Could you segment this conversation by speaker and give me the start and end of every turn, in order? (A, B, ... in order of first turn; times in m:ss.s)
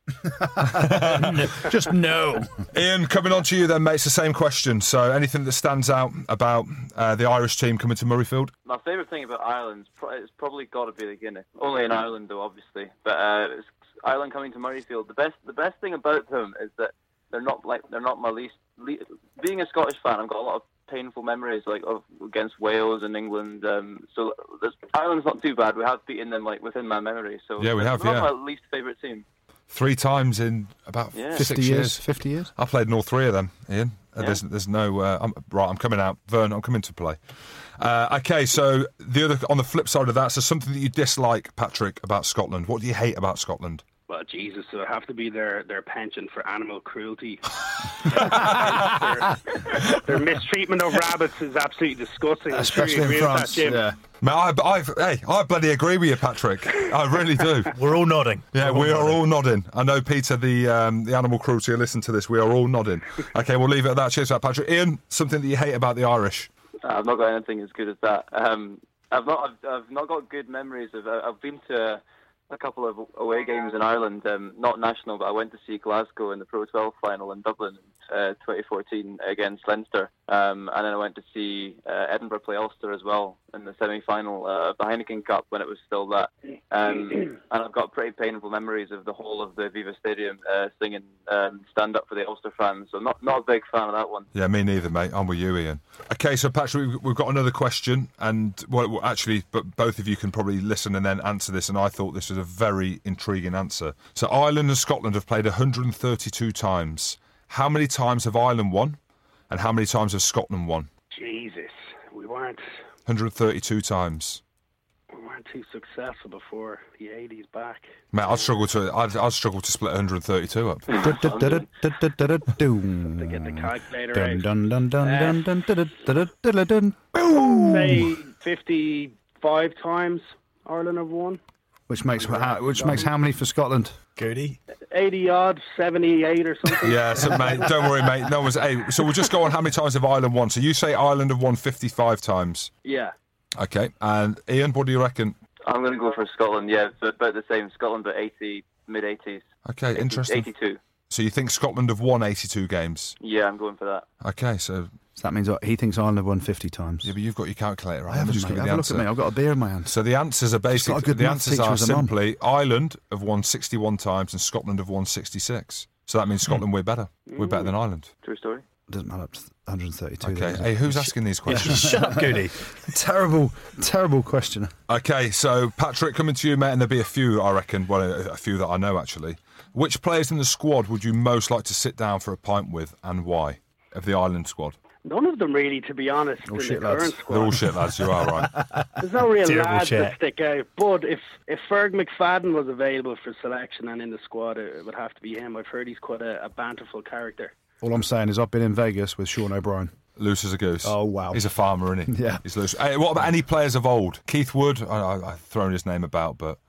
0:00.2-0:02.6 A
0:00.6-0:01.6 B
0:02.7-0:08.5 B
0:08.6-0:29.2 C
0:27.6-0:28.3 B
0:29.7-0:43.8 B
0:31.1-0:31.5 C
0:31.4-0:32.5 A
0:44.1-0:53.9 D
0:52.5-0:54.0 A
0:54.2-0:57.8 B
0:57.7-0:59.2 E
0:58.5-1:06.5 B
1:06.8-1:34.3 C
1:34.3-1:49.0 B
1:49.5-1:50.9 B
1:51.1-1:52.6 D
1:53.1-1:54.4 B
1:55.1-1:57.9 D
1:58.1-2:00.9 B
2:00.9-2:01.6 C
2:01.0-2:08.1 A
2:03.2-2:04.5 D
2:05.0-2:05.4 D
2:07.5-2:11.4 D
2:11.9-2:14.0 A
2:12.2-2:13.1 D
2:14.2-2:14.6 E
2:14.9-2:17.9 D
2:16.8-2:22.7 B
2:22.8-2:23.1 D
2:23.6-2:25.4 B
2:25.6-2:30.8 C
2:29.6-2:30.5 B
2:31.1-2:33.2 B
2:33.2-2:34.1 C
2:34.2-2:34.9 B
2:35.2-2:37.1 A
2:37.0-2:39.1 B
2:38.1-2:40.0 A
2:39.9-2:48.1 B
2:40.7-2:42.1 A
2:47.3-2:47.6 D
2:48.2-2:48.6 C
2:48.9-2:50.9 A
2:50.2-2:51.9 B
2:51.5-2:52.6 E
2:51.5-2:54.7 A
2:54.9-3:04.8 B
3:05.0-3:07.7 D
3:06.5-3:07.2 A
3:07.3-3:08.5 B
3:09.0-3:17.5 D
3:09.4-3:10.2 E
3:17.8-3:19.9 A
3:20.2-3:26.6 B
3:20.8-3:21.4 A
3:22.1-3:22.4 A